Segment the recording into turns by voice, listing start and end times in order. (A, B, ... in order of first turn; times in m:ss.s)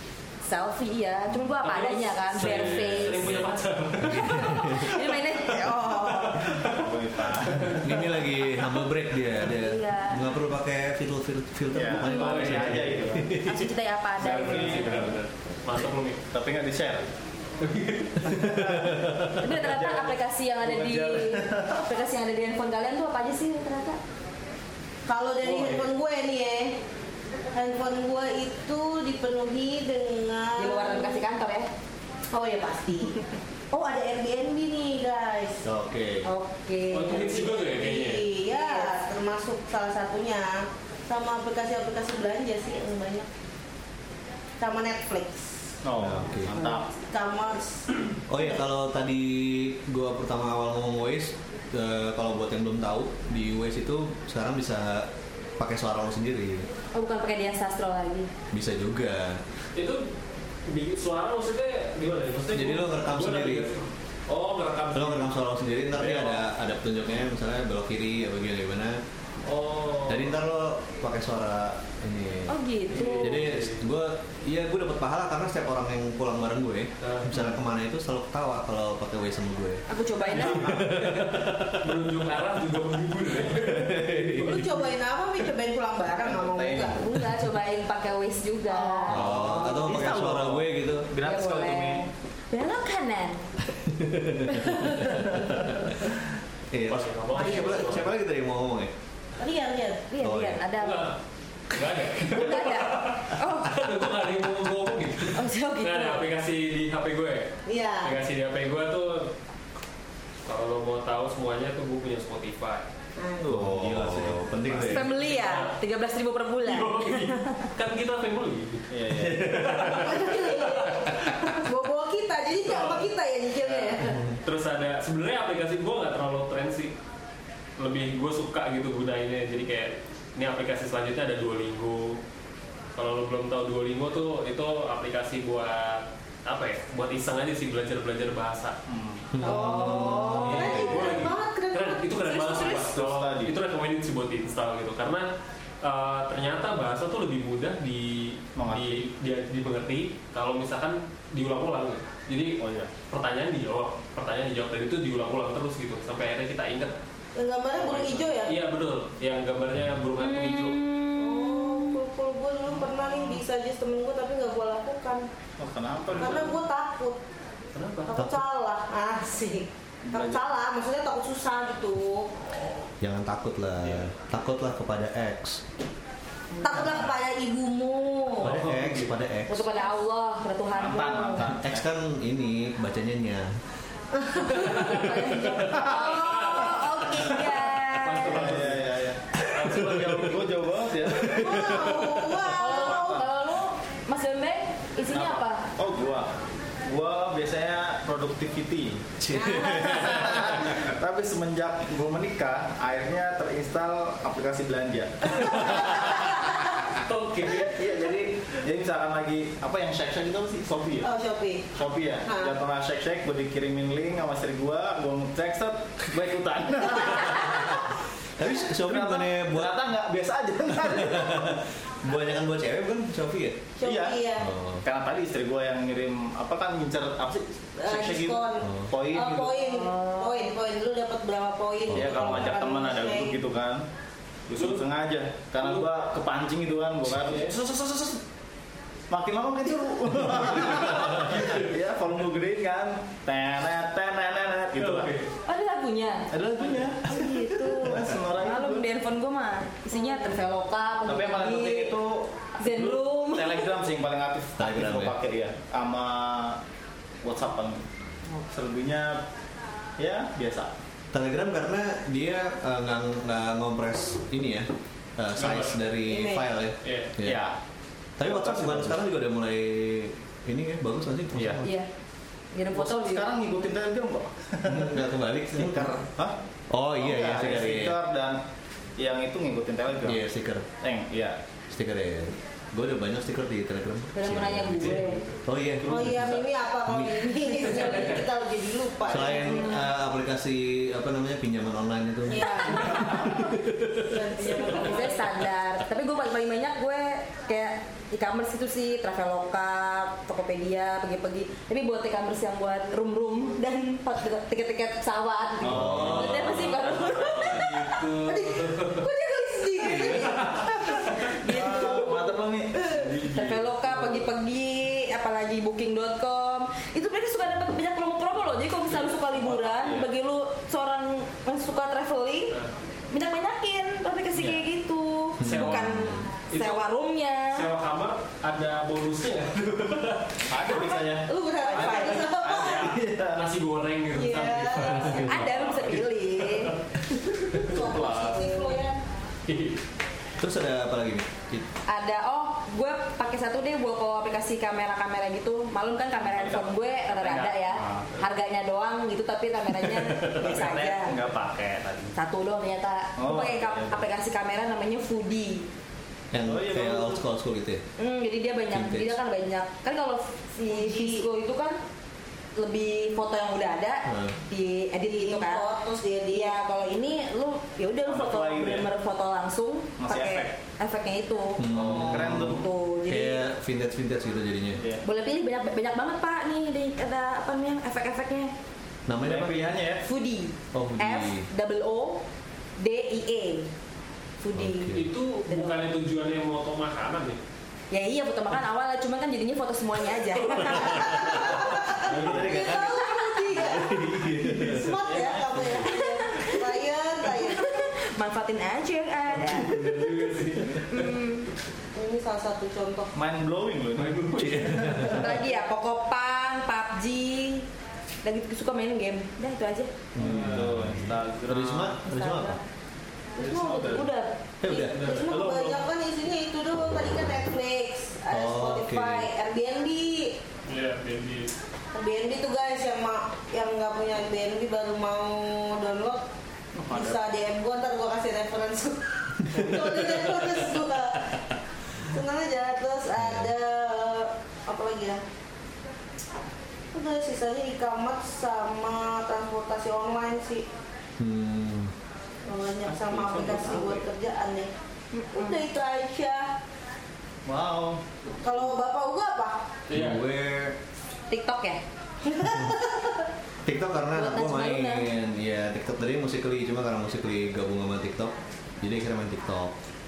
0:00.4-0:03.4 A
0:01.6-0:04.7 B
0:02.3-0:05.2 C
0:04.2-0:06.4 A
0:05.6-0:06.4 D
0:06.1-0:06.9 B
0:06.6-0:07.8 E
0:07.4-0:07.9 B
0:07.8-0:13.7 C
0:09.5-0:10.2 A
0:11.7-0:13.4 E
0:12.0-0:13.2 B
0:13.4-0:14.9 A
0:14.2-0:16.2 B
0:14.4-0:15.2 E
0:16.3-0:17.0 E
0:17.6-0:18.5 B
0:18.3-0:18.9 E
0:18.3-0:19.3 C
0:19.4-0:24.0 A
0:19.4-0:20.0 B
0:20.6-0:21.8 E
0:25.1-0:26.8 D
0:25.4-0:25.9 B
0:27.5-0:31.2 D
0:30.6-0:31.7 A
0:32.3-0:33.2 D
0:33.7-0:35.6 D
0:35.6-0:36.3 C
0:36.3-0:43.3 D
0:36.9-0:38.3 B
0:38.5-0:39.0 A
0:44.6-0:45.6 D
0:45.8-0:46.9 E
0:46.0-0:46.6 C
0:46.6-0:47.8 D
0:48.3-0:56.7 C
0:56.9-0:58.3 A
0:58.5-0:59.4 C
0:59.8-1:00.1 B
1:00.7-1:05.3 B
1:02.5-1:03.7 C
1:04.9-1:09.0 C
1:06.0-1:06.4 B
1:09.4-1:10.4 B
1:10.1-1:12.6 C
1:12.5-1:13.4 A
1:12.9-1:13.8 B
1:13.1-1:22.0 C
1:17.0-1:17.5 B
1:19.9-1:20.8 A
1:20.3-1:24.7 B
1:23.5-1:24.7 C
1:24.3-1:27.0 D
1:26.2-1:27.0 E
1:26.9-1:29.2 A
1:28.7-1:29.3 D
1:29.1-1:31.1 C
1:29.1-1:32.1 E
1:31.2-1:33.5 A
1:33.8-1:36.1 C
1:36.7-1:38.9 C
1:36.9-1:38.1 B
1:37.4-1:37.8 D
1:39.4-1:40.1 D
1:40.1-1:41.1 A
1:40.2-1:40.6 C
1:40.8-1:41.2 B
1:41.7-1:49.3 B
1:42.3-1:43.8 A
1:45.3-1:46.2 A
1:47.7-1:48.2 D
1:50.4-1:52.9 B
1:53.2-1:53.5 D
1:53.4-1:55.0 E
1:53.5-1:55.1 C
1:54.8-1:57.7 A
1:54.9-1:55.7 B
1:56.6-2:01.0 B
1:58.9-1:59.5 E
1:59.2-2:00.2 C
1:59.8-2:04.2 D
2:02.6-2:06.9 B
2:04.0-2:04.4 C
2:07.8-2:12.2 B
2:13.0-2:18.8 B
2:18.9-2:19.3 E
2:19.3-2:21.2 C
2:19.4-2:22.6 D
2:19.7-2:25.3 B
2:22.2-2:22.8 A
2:22.6-2:23.6 E
2:25.8-2:36.9 B
2:28.6-2:29.1 E
2:32.6-2:32.9 E
2:37.4-2:38.6 D
2:37.8-2:40.8 B
2:40.2-2:42.0 A
2:41.2-2:45.3 D
2:45.6-2:46.6 E
2:46.2-2:46.4 B
2:46.2-2:47.2 D
2:47.7-2:48.1 B
2:48.1-2:52.3 D
2:48.1-2:48.4 C
2:50.1-2:50.4 E
2:53.0-2:55.6 C
2:56.6-2:58.6 D
2:58.4-2:59.2 B
2:58.4-2:59.8 C
2:59.5-3:01.4 A
3:00.7-3:01.9 E
3:01.4-3:03.6 C
3:04.2-3:05.2 D
3:04.4-3:08.5 A
3:05.7-3:07.7 D
3:05.7-3:06.1 E
3:06.1-3:06.9 B
3:07.9-3:09.0 B
3:08.2-3:11.6 E
3:09.4-3:10.2 C
3:09.5-3:10.5 B
3:11.0-3:12.4 C
3:11.3-3:13.2 D
3:12.5-3:15.7 A
3:12.6-3:13.3 E
3:15.1-3:16.3 E
3:16.8-3:19.0 E
3:19.2-3:20.8 C
3:20.1-3:26.1 E
3:27.0-3:27.8 B
3:27.5-3:31.1 E
3:31.0-3:31.7 D
3:31.8-3:37.9 E
3:32.2-3:32.6 D
3:38.4-3:39.8 C
3:38.6-3:41.6 E
3:40.8-3:43.6 C
3:43.8-3:44.5 D
3:43.8-3:44.2 E
3:44.4-3:44.8 C
3:44.8-3:49.6 E
3:47.8-3:53.4 D
3:48.6-3:48.9 C
3:49.4-3:50.5 A
3:51.9-3:52.5 C
3:51.9-3:53.8 E
3:54.5-3:58.2 E
3:57.3-3:57.5 B
3:59.1-4:05.1 E
4:00.8-4:01.7 B
4:04.8-4:05.3 B
4:05.5-4:06.3 A
4:06.3-4:08.8 E
4:07.0-4:10.5 A
4:09.9-4:11.2 D
4:11.1-4:12.0 A
4:11.1-4:16.6 E
4:12.6-4:13.7 A
4:14.6-4:15.2 C
4:17.2-4:17.8 E
4:18.4-4:19.2 E
4:20.0-4:20.7 E
4:21.1-4:27.4 C
4:25.4-4:25.8 B
4:26.1-4:26.4 D
4:26.8-4:27.1 B
4:27.2-4:27.6 E
4:28.2-4:31.7 C
4:28.2-4:29.0 E
4:32.6-4:33.3 A
4:32.7-4:36.4 E
4:34.6-4:36.0 C
4:36.7-4:38.0 C
4:37.0-4:38.4 E
4:39.0-4:40.2 E
4:40.0-4:40.7 C
4:40.8-4:41.4 E
4:41.7-4:47.4 C
4:44.2-4:45.2 A
4:44.8-4:45.3 B
4:45.8-4:46.4 E
4:45.9-4:49.7 D
4:47.7-4:48.2 B
4:49.0-4:54.2 C
4:49.2-4:49.8 A
4:52.3-4:55.4 D
4:52.4-4:53.0 A
4:54.6-5:07.9 A
5:05.6-5:08.0 E
5:05.7-5:06.7 C
5:06.4-5:09.0 B
5:08.2-5:10.6 D
5:09.5-5:12.3 A
5:11.3-5:13.6 E
5:13.3-5:22.6 A
5:19.1-5:20.0 B
5:23.1-5:27.7 A
5:24.4-5:24.6 B
5:25.4-5:26.3 C
5:25.4-5:26.8 B
5:27.5-5:30.4 B
5:30.5-5:33.5 E
5:30.7-5:32.9 D
5:31.7-5:36.8 B
5:31.8-5:32.2 A
5:34.1-5:35.2 D
5:35.0-5:36.7 A
5:37.4-5:38.5 B
5:37.5-5:39.0 D
5:38.3-5:38.8 A
5:39.5-5:39.8 B
5:40.4-5:41.7 C
5:41.9-5:51.2 A
5:46.3-5:46.7 E
5:47.2-5:48.1 E
5:50.3-5:52.2 E
5:52.2-5:55.7 A
5:53.2-5:54.0 E
5:56.3-5:57.8 C
5:56.4-5:57.2 E
5:58.0-6:01.8 A
5:58.7-5:59.2 C
6:00.6-6:01.2 D
6:02.6-6:05.7 A
6:04.1-6:04.4 C
6:05.0-6:06.6 D
6:06.3-6:13.4 A
6:08.1-6:08.9 E
6:10.0-6:10.5 E
6:11.6-6:14.8 C
6:11.7-6:12.7 E
6:15.0-6:18.5 A
6:19.1-6:19.8 C
6:19.2-6:20.1 E
6:20.0-6:22.2 A
6:20.7-6:21.5 C
6:22.8-6:23.7 A
6:24.4-6:25.0 A
6:24.5-6:25.1 C
6:24.9-6:27.4 B
6:25.5-6:25.8 A
6:27.9-6:31.7 A
6:31.0-6:37.8 D
6:31.1-6:35.0 C
6:32.0-6:32.5 B
6:32.7-6:33.3 A
6:35.1-6:35.6 B
6:35.8-6:40.0 A
6:39.4-6:41.1 B
6:40.7-6:41.5 A
6:42.0-6:43.1 D
6:43.1-6:45.1 E
6:44.0-6:45.2 B
6:44.4-6:45.3 C
6:45.1-6:47.7 A
6:48.2-6:49.9 A
6:50.2-6:52.6 C
6:50.2-6:52.0 E
6:50.2-6:50.8 B
6:52.1-6:52.6 A
6:53.4-6:54.3 A
6:53.4-6:54.1 E
6:54.6-6:55.0 C
6:54.7-7:00.4 D
6:54.8-6:55.7 B
6:58.3-6:59.3 C
7:00.7-7:01.5 B
7:01.9-7:06.2 D
7:06.8-7:07.2 E
7:06.9-7:11.3 D
7:12.0-7:15.2 D
7:13.2-7:13.5 C
7:16.9-7:20.7 D
7:21.2-7:21.9 C
7:22.5-7:24.7 D
7:22.9-7:24.1 E
7:25.1-7:25.6 A
7:25.3-7:26.5 D
7:27.5-7:28.0 E
7:28.3-7:29.6 D
7:29.9-7:30.2 B
7:29.9-7:30.8 C
7:31.3-7:31.8 A
7:32.2-7:33.2 D
7:33.6-7:39.8 C
7:34.1-7:35.1 A